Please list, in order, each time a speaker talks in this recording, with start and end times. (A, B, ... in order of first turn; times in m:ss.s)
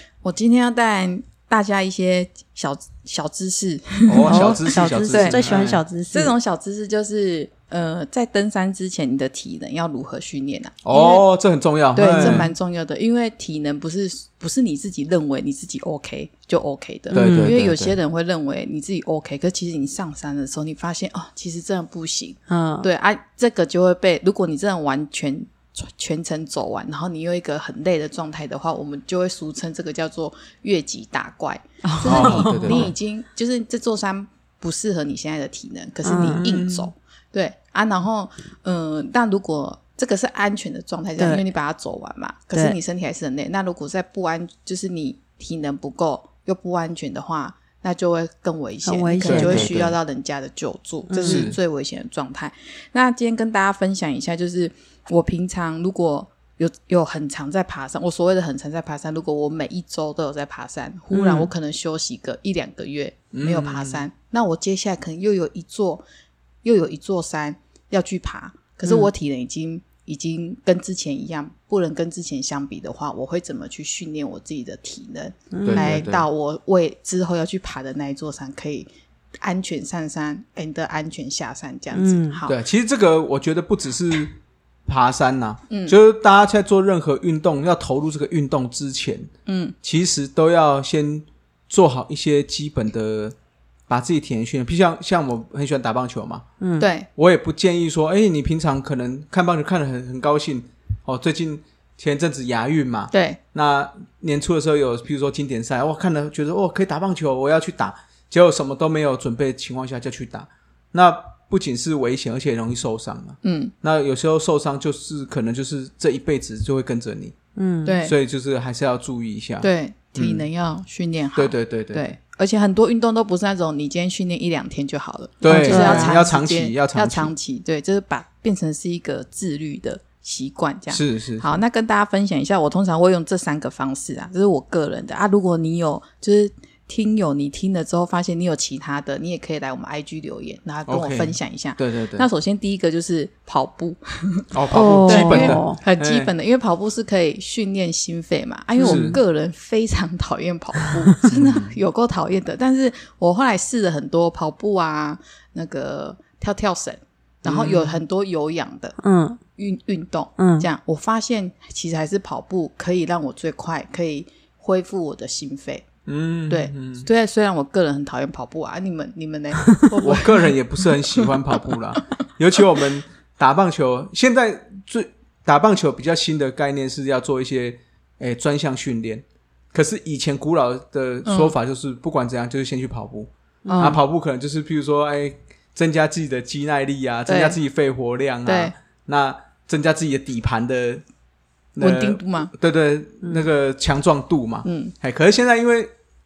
0:00.2-0:05.6 A
0:04.1-0:05.8 B
0:04.3-0:06.3 C
0:06.1-0:11.3 A
0:10.8-0:12.5 B
0:11.9-1:06.0 A
0:12.1-0:12.5 C
0:17.1-0:17.6 C
0:17.1-0:18.0 B
0:22.5-0:22.9 C
0:31.8-0:32.9 C
0:32.1-0:32.9 B
0:36.0-0:36.4 C
0:36.2-0:36.9 B
0:41.2-0:41.5 C
0:48.8-0:49.7 C
0:49.3-0:50.0 B
0:51.1-0:51.5 C
0:51.2-0:51.6 B
1:01.1-1:01.5 C
1:03.3-1:04.1 B
1:06.6-1:18.9 A
1:15.5-1:16.0 C
1:15.6-1:16.3 B
1:19.4-1:22.6 A
1:21.9-1:22.4 C
1:22.5-1:29.3 B
1:25.7-1:26.0 A
1:29.5-1:29.8 A
1:29.8-1:33.4 B
1:33.9-1:36.4 B
1:36.6-1:36.9 C
1:36.8-1:37.1 A
1:37.2-1:57.4 B
1:43.1-1:43.4 A
1:53.4-1:53.7 A
1:57.6-1:58.0 C
1:57.8-1:58.2 A
1:58.0-2:00.4 B
1:59.6-2:39.0 A
2:01.4-2:02.1 B
2:05.4-2:07.3 B
2:05.4-2:06.2 C
2:10.9-2:11.5 B
2:20.9-2:22.3 B
2:24.5-2:26.3 B
2:24.7-2:25.8 C
2:28.8-2:29.2 B
2:28.8-2:29.2 C
2:31.2-2:31.7 B
2:37.4-2:38.0 B
2:39.0-2:39.4 C
2:39.6-2:45.8 A
2:40.4-2:40.7 C
2:46.1-2:47.1 B
2:46.5-2:50.5 A
2:50.0-3:11.0 B
3:01.2-3:01.6 A
3:03.6-3:04.0 C
3:03.7-3:04.0 A
3:07.3-3:07.6 A
3:08.4-3:08.7 A
3:11.8-3:15.9 B
3:11.8-3:12.5 A
3:14.6-3:15.0 A